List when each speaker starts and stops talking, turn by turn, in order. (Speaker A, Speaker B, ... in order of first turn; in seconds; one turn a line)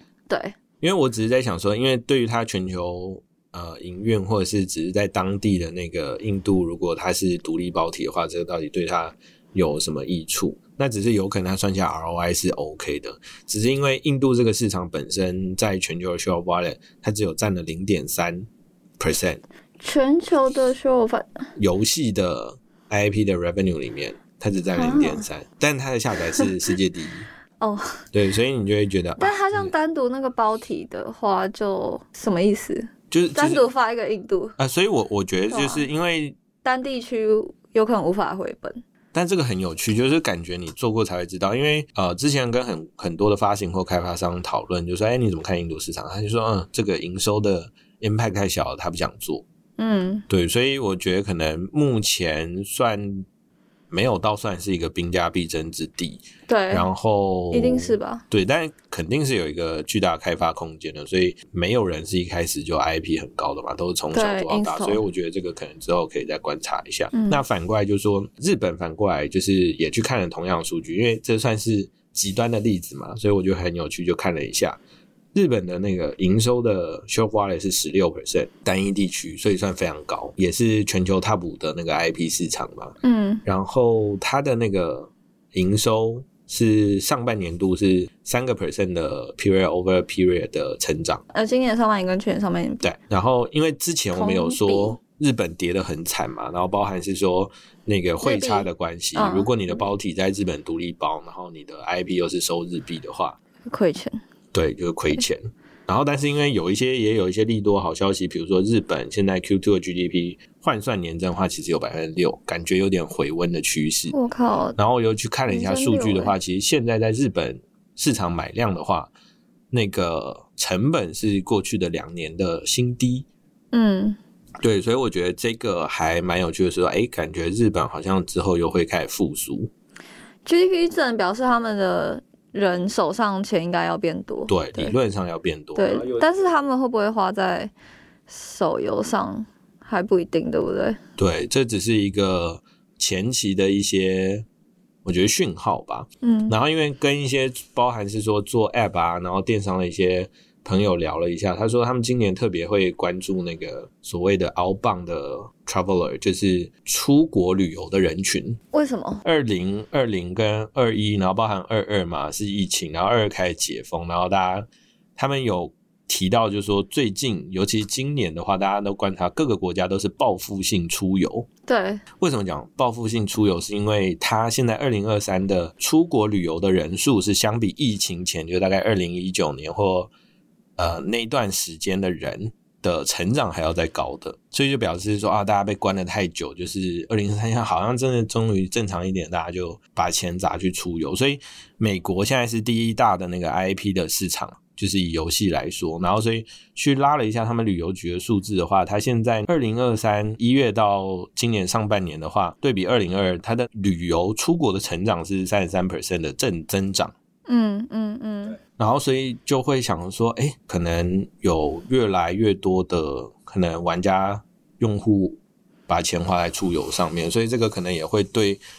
Speaker A: 0.3-0.6
Speaker B: 0.8-18.5
Speaker B: 19.0-19.4
Speaker A: 19.8-21.5
Speaker B: 21.6-27.3
Speaker A: 24.7-25.3
Speaker A: 27.6-28.0
Speaker B: 28.1-29.7
Speaker A: 29.2-34.5
Speaker B: 33.1-33.7
Speaker B: 34.6-36.4
Speaker A: 35.5-35.9
Speaker A: 36.6-38.8
Speaker B: 39.1-49.5
Speaker A: 49.8-50.2
Speaker B: 50.3-53.3
Speaker B: 53.9-74.8
Speaker A: 56.5-56.9
Speaker A: 57.5-58.2
Speaker A: 64.1-65.0
Speaker A: 67.1-67.4
Speaker B: 75.3-91.2
Speaker A: 83.0-83.4
Speaker A: 91.3-92.9
Speaker B: 92.8-103.4
Speaker A: 94.2-95.0
Speaker A: 98.2-99.8
Speaker A: 103.7-104.2
Speaker B: 104.5-114.2
Speaker A: 114.1-114.8
Speaker B: 114.8-119.1
Speaker A: 115.5-116.3
Speaker B: 119.7-123.3
Speaker A: 123.7-124.2
Speaker B: 124.6-129.7
Speaker A: 130.4-135.0
Speaker B: 134.5-136.5
Speaker A: 135.8-137.7
Speaker A: 138.3-141.0
Speaker B: 141.2-144.5
Speaker B: 145.1-158.6
Speaker A: 146.2-146.6
Speaker A: 158.7-159.2
Speaker B: 159.2-171.5
Speaker A: 171.7-172.0
Speaker B: 172.2-180.1
Speaker B: 180.8-207.1
Speaker A: 207.5-208.6
Speaker B: 208.7-218.6